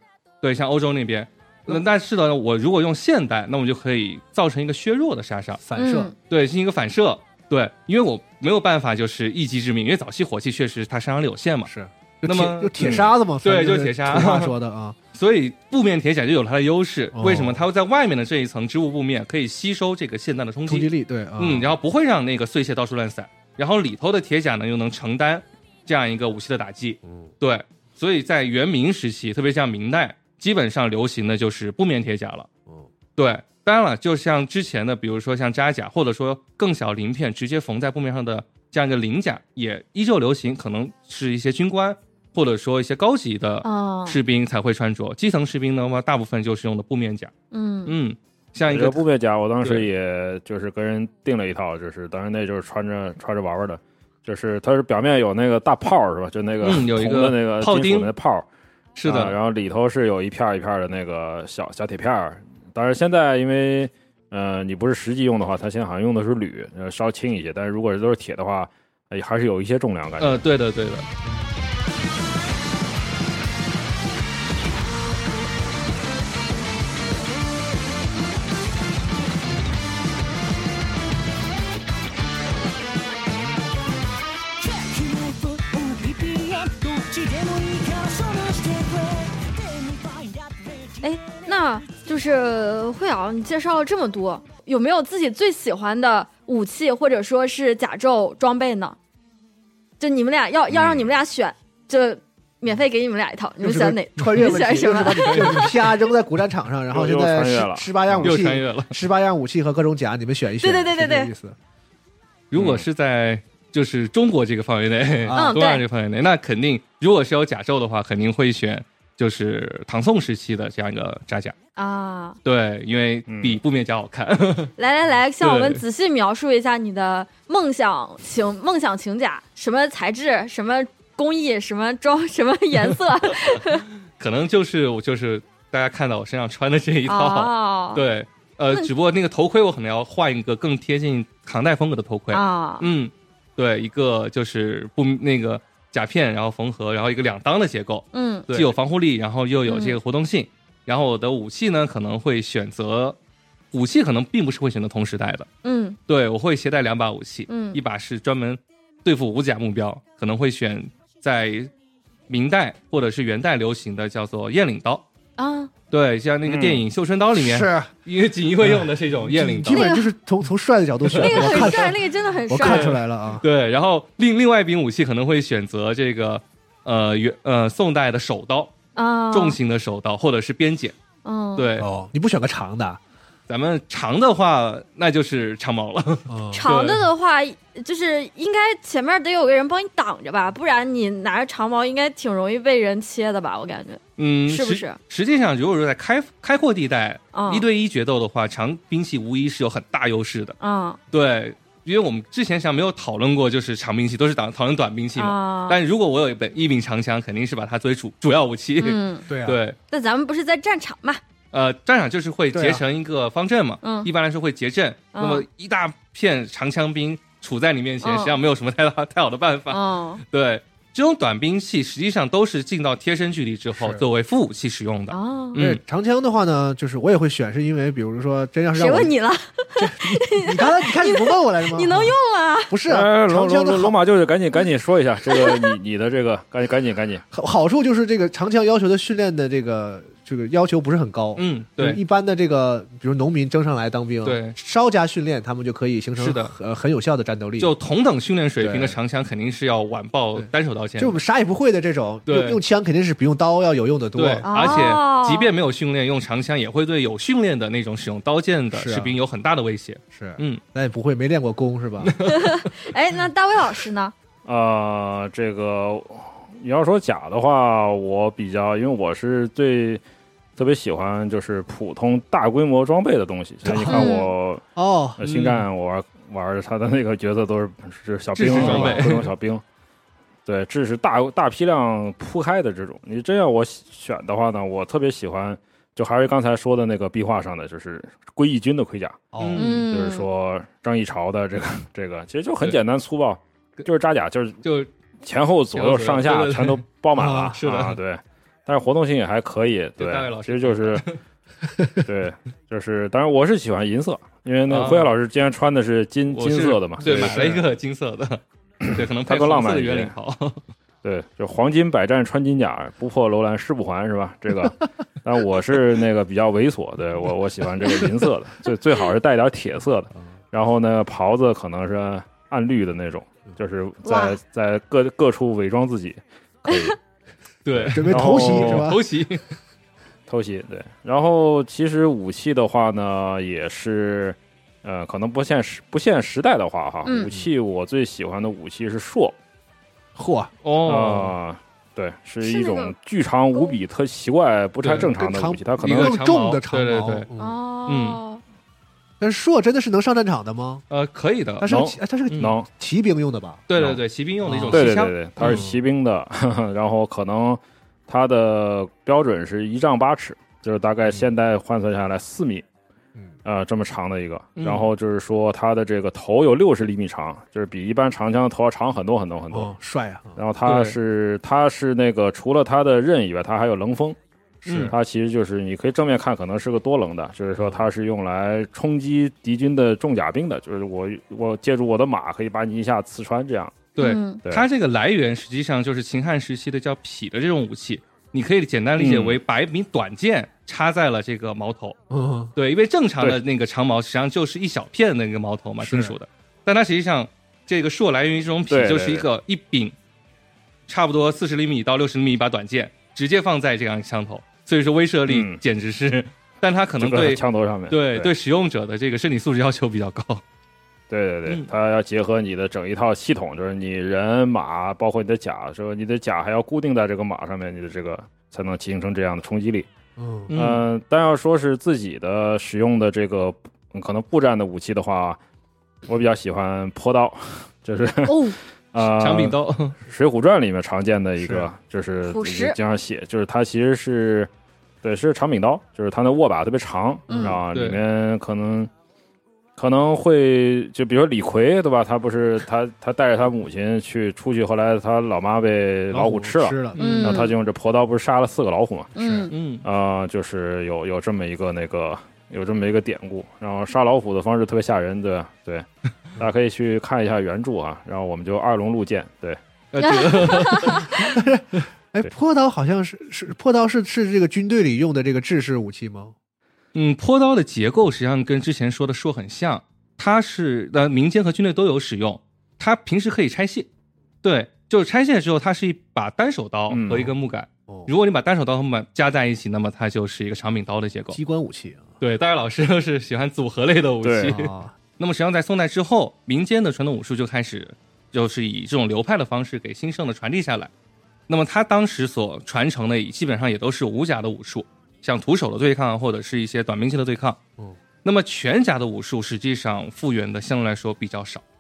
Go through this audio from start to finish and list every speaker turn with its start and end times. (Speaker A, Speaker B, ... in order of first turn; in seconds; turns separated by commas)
Speaker A: 0.4-5.6, Speaker B: 5.6-6.1, Speaker C: 5.8-6.1, Speaker A: 6.3-11.7, Speaker B: 11.7-15.0, Speaker A: 12.2-14.5, Speaker D: 12.8-13.1, Speaker A: 15.1-32.5, Speaker B: 17.1-17.7, Speaker B: 20.7-21.7, Speaker B: 27.0-27.3, Speaker A: 33.2-47.3, Speaker C: 43.6-44.2, Speaker C: 47.5-47.9, Speaker A: 47.9-49.0, Speaker D: 48.7-58.5, Speaker A: 49.6-49.9, Speaker A: 56.6-58.1, Speaker A: 59.0-59.4, Speaker D: 59.0-70.4, Speaker A: 70.2-71.1, Speaker E: 84.7-90.8, Speaker C: 91.0-99.0, Speaker C: 100.0-105.7, Speaker D: 100.7-101.1, Speaker B: 103.6-111.6, Speaker A: 105.0-105.7, Speaker D: 106.9-108.3, Speaker A: 108.2-108.9, Speaker C: 110.6-111.3, Speaker A: 112.5-121.5, Speaker D: 112.6-112.8, Speaker B: 115.2-115.6, Speaker C: 115.3-115.8, Speaker C: 121.8-122.4, Speaker A: 122.5-124.7, Speaker D: 123.3-123.6, Speaker C: 124.8-133.8, Speaker A: 125.4-125.8, Speaker A: 134.2-153.2, Speaker C: 137.1-138.0, Speaker C: 142.3-142.9, Speaker C: 148.1-148.7, Speaker C: 149.7-150.0, Speaker A: 153.7-155.5, Speaker C: 155.6-156.0, Speaker A: 156.1-161.7, Speaker C: 157.5-157.8, Speaker A: 162.3-165.0, Speaker C: 165.4-165.7, Speaker A: 165.9-169.9, Speaker D: 166.4-166.8, Speaker B: 167.3-167.9, Speaker B: 168.6-171.9, Speaker C: 169.7-170.1, Speaker A: 171.1-171.9, Speaker C: 171.2-172.9, Speaker B: 172.5-173.4, Speaker A: 172.6-178.7, Speaker C: 179.0-179.6, Speaker A: 179.3-180.9, Speaker C: 181.2-181.7, Speaker A: 181.6-181.9, Speaker B: 181.8-183.0, Speaker A: 183.5-187.1, Speaker B: 186.3-186.7, Speaker C: 186.5-195.0, Speaker A: 194.2-200.6, Speaker C: 197.3-197.7, Speaker C: 200.6-201.0, Speaker A: 201.1-209.8, Speaker C: 205.2-205.8, Speaker C: 208.8-209.3, Speaker B: 209.3-209.6, Speaker C: 209.9-211.2, Speaker A: 211.5-225.8, Speaker B: 212.5-212.8, Speaker C: 213.8-214.1, Speaker C: 215.1-215.4, Speaker C: 218.0-218.3, Speaker C: 219.7-220.2, Speaker B: 223.7-224.1, Speaker C: 225.1-225.6, Speaker B: 225.6-229.1, Speaker C: 228.8-232.7, Speaker B: 229.8-232.2, Speaker B: 232.7-234.0, Speaker D: 232.9-237.2, Speaker C: 235.3-235.7, Speaker B: 237.3-247.7, Speaker A: 241.4-242.0, Speaker A: 244.2-244.6, Speaker A: 246.2-246.5, Speaker A: 247.6-251.2, Speaker B: 248.6-249.0, Speaker B: 250.3-255.0, Speaker A: 252.3-252.6, Speaker A: 254.2-260.6, Speaker C: 254.5-255.5, Speaker B: 258.7-259.2, Speaker B: 260.1-262.2, Speaker A: 262.0-262.7, Speaker C: 262.2-264.1, Speaker D: 264.5-270.0, Speaker D: 270.6-274.6, Speaker B: 273.6-274.2, Speaker C: 273.9-274.3, Speaker B: 274.8-275.2, Speaker D: 275.2-279.6, Speaker A: 275.2-275.6, Speaker A: 278.4-279.3, Speaker B: 278.5-279.1, Speaker D: 280.5-289.3, Speaker B: 289.3-289.7, Speaker A: 289.4-289.8, Speaker C: 289.6-290.3, Speaker D: 289.8-294.6, Speaker A: 294.6-294.9, Speaker D: 295.2-301.1, Speaker A: 295.7-296.8, Speaker B: 297.2-297.6, Speaker A: 297.6-298.0, Speaker A: 300.0-301.2, Speaker B: 301.8-302.0, Speaker D: 302.0-307.6, Speaker A: 304.7-305.1, Speaker A: 306.3-310.6, Speaker B: 307.0-307.6, Speaker D: 308.9-310.1, Speaker D: 311.0-327.0, Speaker C: 324.1-324.4, Speaker A: 327.7-329.5, Speaker D: 327.8-329.0, Speaker B: 327.9-329.0, Speaker D: 330.3-339.4, Speaker C: 337.1-337.3, Speaker B: 340.2-340.5, Speaker A: 340.6-341.3, Speaker D: 340.9-346.2, Speaker C: 342.4-342.9, Speaker A: 344.8-345.1, Speaker B: 344.9-347.6, Speaker A: 345.8-347.3, Speaker C: 347.4-348.4, Speaker A: 347.9-348.2, Speaker B: 349.2-350.8, Speaker A: 350.9-351.7, Speaker B: 351.6-353.7, Speaker D: 351.7-352.7, Speaker A: 352.3-352.6, Speaker A: 353.7-355.6, Speaker B: 354.4-355.8, Speaker D: 354.7-362.6, Speaker D: 363.4-369.7, Speaker A: 364.6-364.9, Speaker B: 369.5-370.4, Speaker D: 370.4-374.2, Speaker A: 370.6-371.0, Speaker B: 374.6-374.9, Speaker A: 374.7-374.9, Speaker D: 374.7-383.9, Speaker A: 384.0-392.0, Speaker C: 384.0-384.4, Speaker D: 389.0-389.4, Speaker B: 392.1-392.5, Speaker A: 392.6-399.9, Speaker B: 395.8-396.1, Speaker D: 398.7-399.2, Speaker A: 400.9-410.4, Speaker D: 405.3-405.6, Speaker D: 407.0-408.3, Speaker D: 411.1-419.9, Speaker B: 420.2-420.5, Speaker A: 420.5-420.8, Speaker D: 420.5-425.4, Speaker D: 426.1-428.4, Speaker C: 428.3-428.6, Speaker D: 428.9-434.5, Speaker A: 429.0-430.0, Speaker B: 431.4-431.7, Speaker C: 432.3-432.8, Speaker D: 435.0-438.9, Speaker B: 437.3-437.6, Speaker C: 437.3-437.6, Speaker A: 437.7-438.0, Speaker D: 439.8-449.1, Speaker B: 446.1-447.0, Speaker A: 446.9-447.4, Speaker C: 447.0-447.5, Speaker C: 449.2-449.5, Speaker B: 449.2-449.5, Speaker A: 449.5-449.9, Speaker D: 449.8-455.9, Speaker D: 456.4-459.6, Speaker A: 459.9-461.2, Speaker C: 460.0-461.1, Speaker B: 461.2-466.4, Speaker A: 466.9-473.9, Speaker A: 474.4-481.4, Speaker D: 476.9-477.3, Speaker B: 481.3-482.1, Speaker A: 482.2-490.9, Speaker D: 484.2-484.6, Speaker B: 484.4-484.9, Speaker A: 491.5-497.6, Speaker A: 498.2-501.6